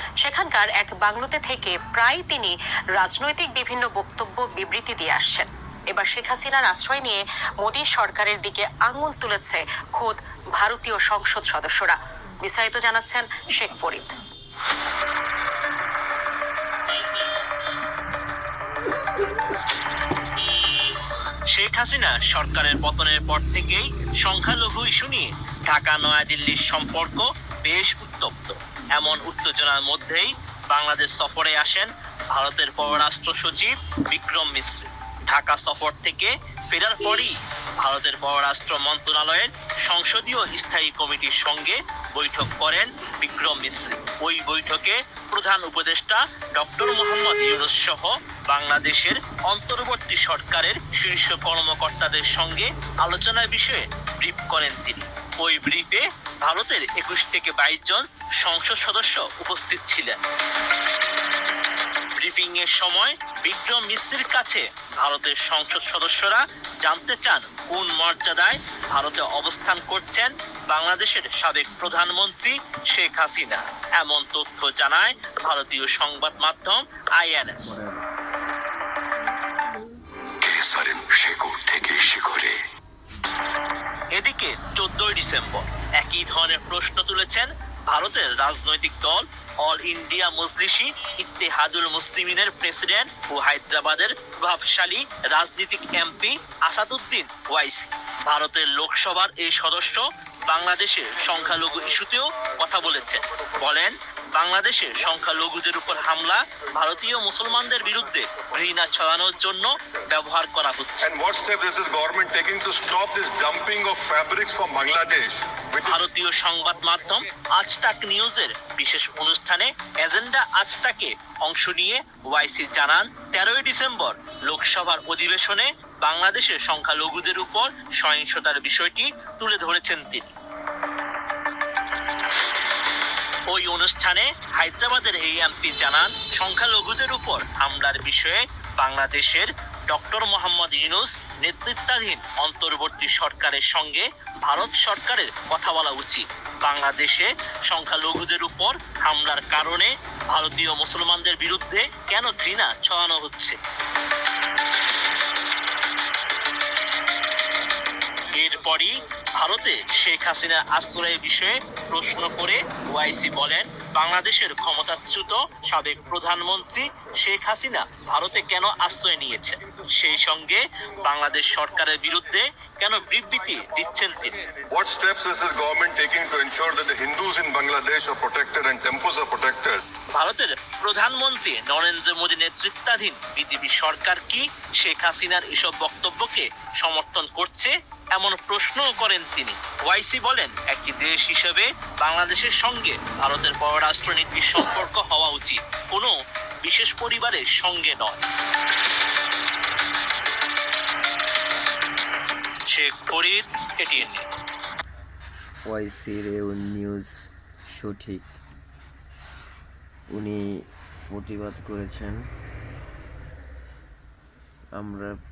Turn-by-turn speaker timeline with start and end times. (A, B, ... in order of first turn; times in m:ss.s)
0:00.2-0:14.1 A
0:21.5-1:00.2 B
1:02.2-1:17.8 B
1:17.7-1:18.0 C
1:20.4-1:22.6 D
1:24.1-1:51.1 B
1:51.0-1:56.0 E
1:55.8-2:10.3 B
2:13.5-2:33.6 B
2:38.3-2:54.4 B
2:54.7-2:59.8 E
3:00.1-3:18.2 B
3:22.7-3:24.2 B
3:25.7-3:27.1 C
3:27.7-3:28.3 C
3:30.1-3:30.4 C
3:31.1-3:32.2 C
3:34.7-3:35.2 C